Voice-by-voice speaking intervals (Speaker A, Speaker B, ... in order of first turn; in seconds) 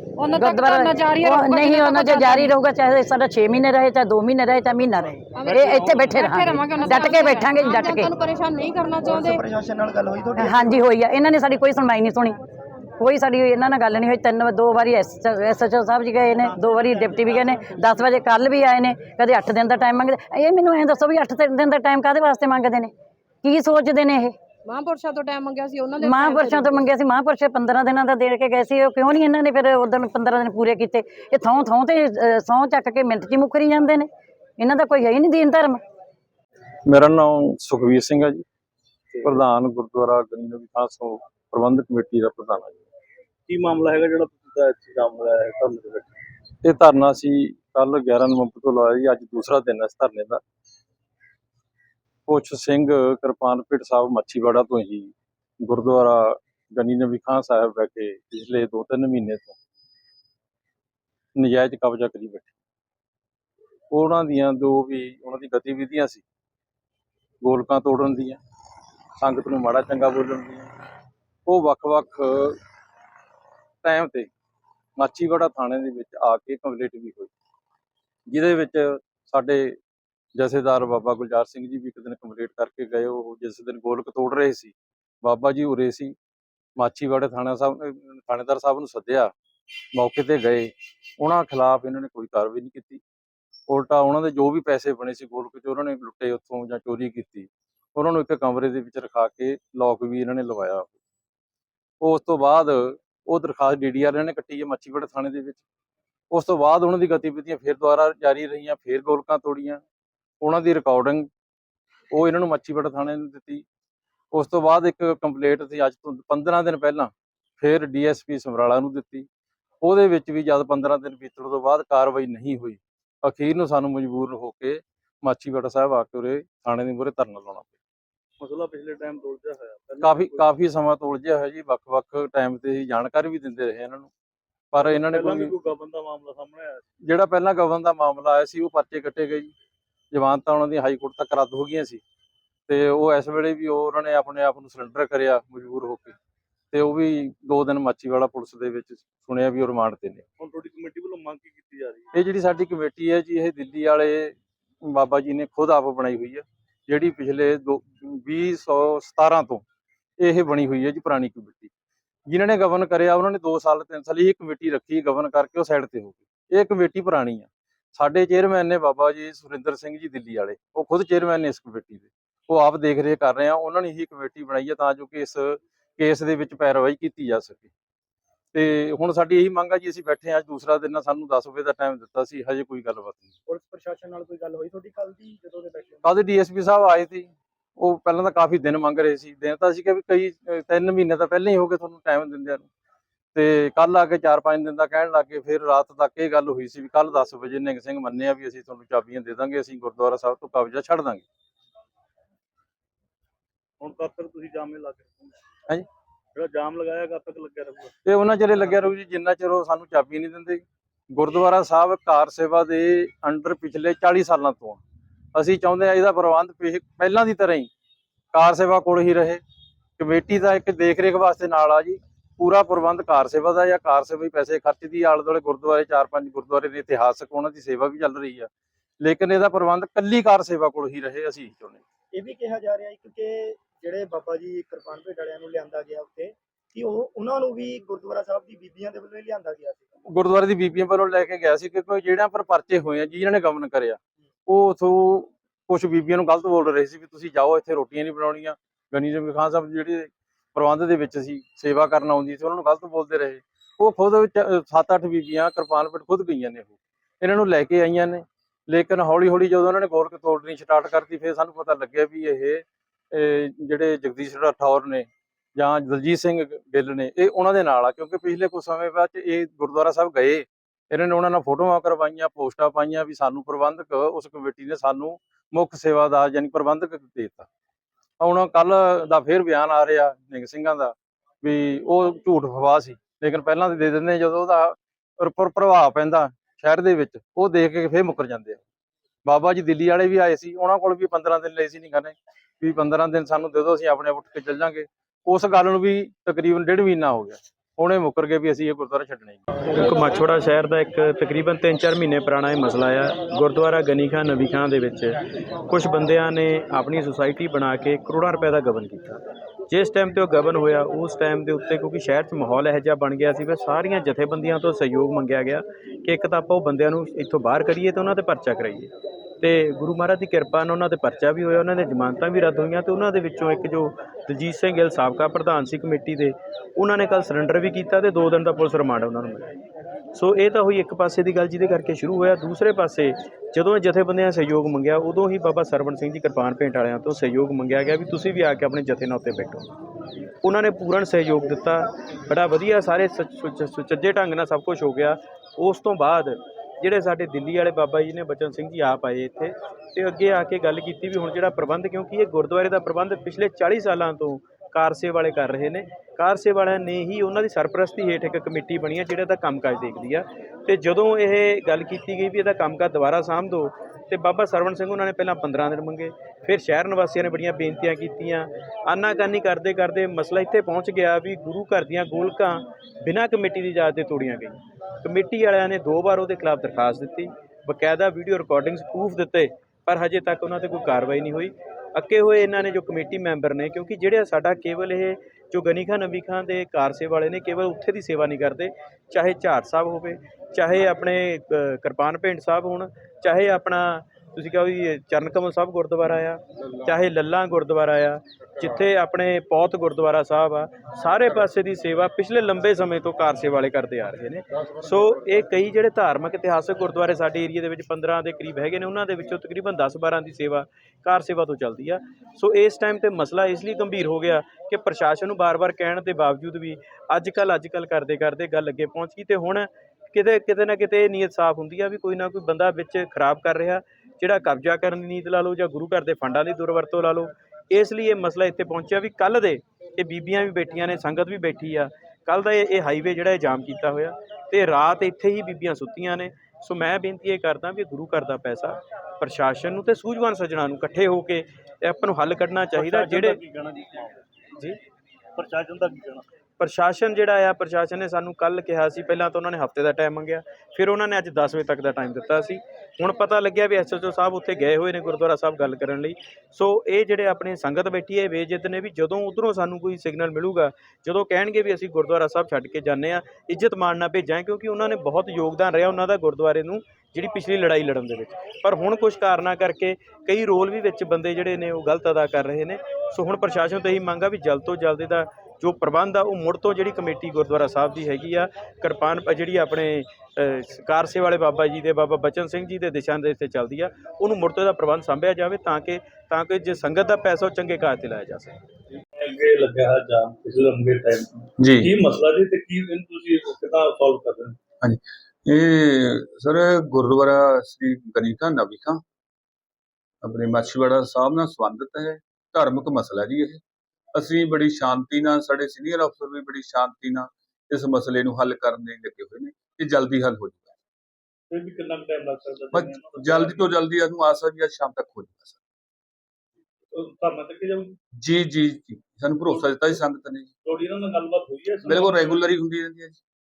Speaker A: 0.2-2.5, 5.3-9.4, 24.6-26.8
Speaker B: 0.3-8.1, 10.4-12.4, 13.0-22.9, 23.4-24.3, 26.0-35.8
Speaker C: 9.1-10.8, 232.1-239.8
Speaker D: 36.9-38.4, 39.2-42.8, 46.6-50.4, 52.3-59.5, 61.4-62.5, 63.9-66.2, 67.4-68.4, 69.2-70.7, 71.5-72.6, 73.8-74.3, 75.0-77.3, 78.3-79.8, 80.4-86.1, 86.8-89.3, 89.9-93.0, 93.7-101.0, 102.0-105.6, 106.3-109.8, 110.4-111.3, 112.1-113.6, 114.3-119.3, 119.8-127.7, 130.0-134.1, 134.7-135.5, 137.1-139.5, 140.1-142.0, 142.7-146.1, 146.7-150.2, 152.1-159.6, 160.2-161.7, 162.3-177.7, 178.5-183.3, 186.0-192.7, 193.3-201.2, 208.0-214.8, 215.3-217.7, 218.3-219.4, 220.0-228.5, 229.0-231.8, 240.1-277.5, 278.2-288.6, 289.2-299.4
Speaker E: 43.5-46.2, 128.4-130.5, 134.8-136.8, 150.4-152.1, 203.8-205.4, 206.3-207.9, 442.7-444.2, 445.4-446.2, 489.2-494.6, 511.5-513.8, 516.9-517.9, 519.4-519.9, 520.6-522.5
Speaker F: 183.5-186.0, 491.6-491.9, 494.8-499.0, 500.2-503.6, 504.1-510.7, 512.7-515.6, 518.2-520.5, 521.9-523.2
Speaker G: 299.8-305.1, 305.7-318.9, 319.4-329.5, 330.1-339.7, 340.4-443.4, 446.6-488.6